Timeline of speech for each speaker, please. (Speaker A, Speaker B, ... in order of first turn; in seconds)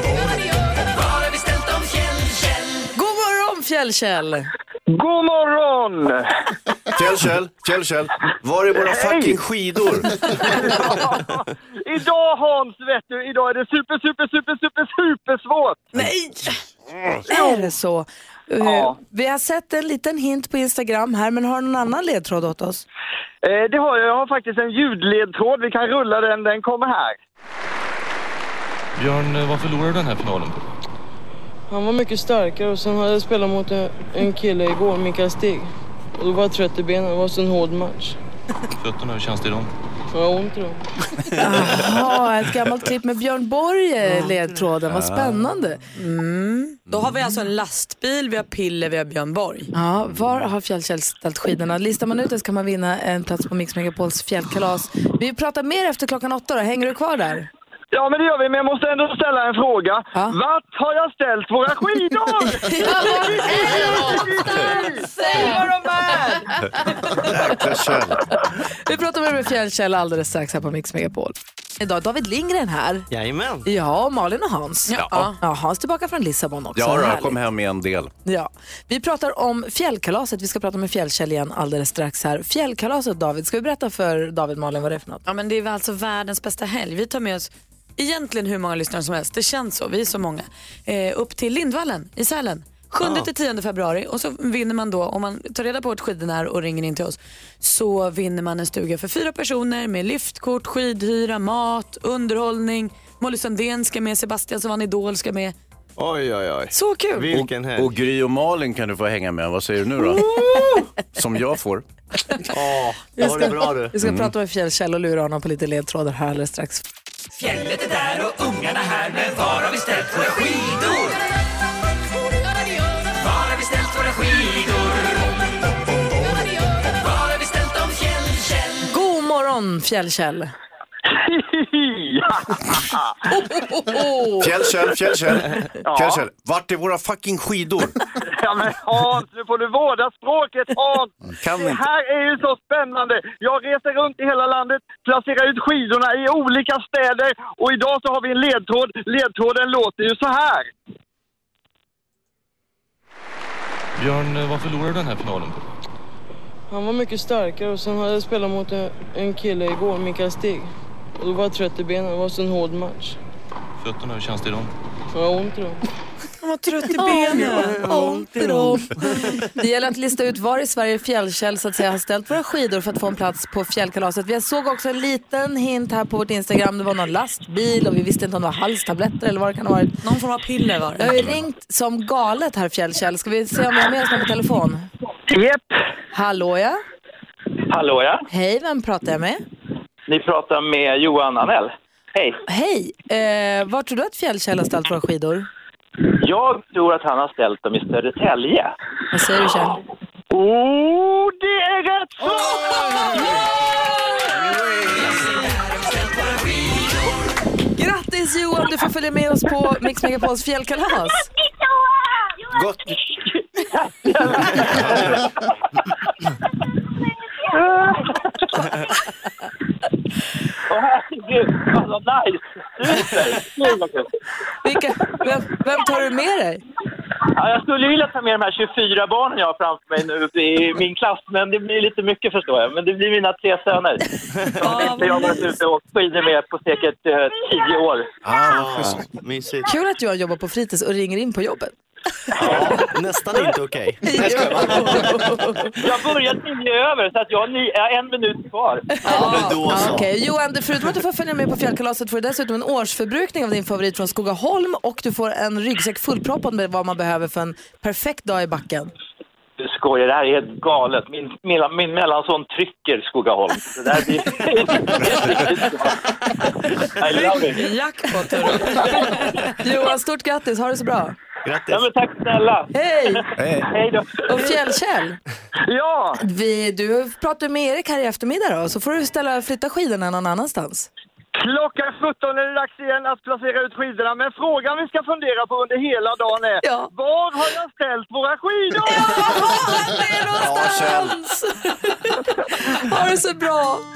Speaker A: 0.8-2.9, 117.3-121.2, 123.2-125.4, 127.0-128.9, 204.9-207.2
Speaker B: 3.0-4.5, 17.3-22.8, 41.4-45.9, 49.7-57.5, 62.6-65.6, 68.9-73.1, 73.7-77.4, 78.3-85.2, 113.2-116.8, 128.9-130.5, 133.3-134.6, 166.9-179.9, 181.0-184.9, 186.1-186.8, 188.3-189.4, 192.5-195.5, 199.1-199.8, 207.8-211.3, 224.6-226.6, 239.6-241.7, 242.3-242.8, 244.0-245.7, 249.0-258.9, 269.6-271.2, 272.7-273.2, 274.3-275.2, 276.2-280.9, 286.6-286.9, 289.1-293.8
Speaker C: 4.9-6.2, 8.7-9.4, 10.5-15.9, 18.6-18.9, 23.4-27.2, 57.9-66.5, 131.3-131.9, 138.4-150.7, 200.3-203.0, 275.7-276.2, 281.4-289.1
Speaker D: 7.0-10.2, 44.8-45.5, 50.0-50.5, 67.2-68.3, 76.8-78.1, 107.3-110.3, 111.1-111.9, 114.0-114.3, 134.4-138.0, 141.4-141.8, 212.5-212.8, 214.7-215.1, 238.2-239.1, 273.4-273.7, 290.4-291.2
Speaker E: 16.0-16.5, 46.0-49.7, 74.9-75.4, 85.3-105.5, 106.7-107.3, 166.4-167.9, 180.0-181.1, 234.6-235.5, 249.1-249.8, 267.0-269.6
Speaker F: 28.9-30.6, 38.8-39.7, 154.0-155.6, 163.8-164.7
Speaker G: 31.7-38.2, 40.1-40.9, 156.7-163.2, 165.1-165.8
Speaker H: 73.1-73.7, 106.0-107.9, 110.0-110.9, 112.5-114.0, 167.2-169.5, 234.3-234.9, 238.5-239.7, 242.4-245.9, 249.1-250.1, 271.4-271.9
Speaker I: 185.3-185.6, 187.7-188.2, 190.1-192.4, 196.2-198.7, 213.6-214.9, 217.6-218.1, 220.7-224.1, 227.4-234.0, 234.6-238.1, 245.8-248.9, 259.6-266.0, 267.0-267.7, 271.7-272.7, 273.7-274.2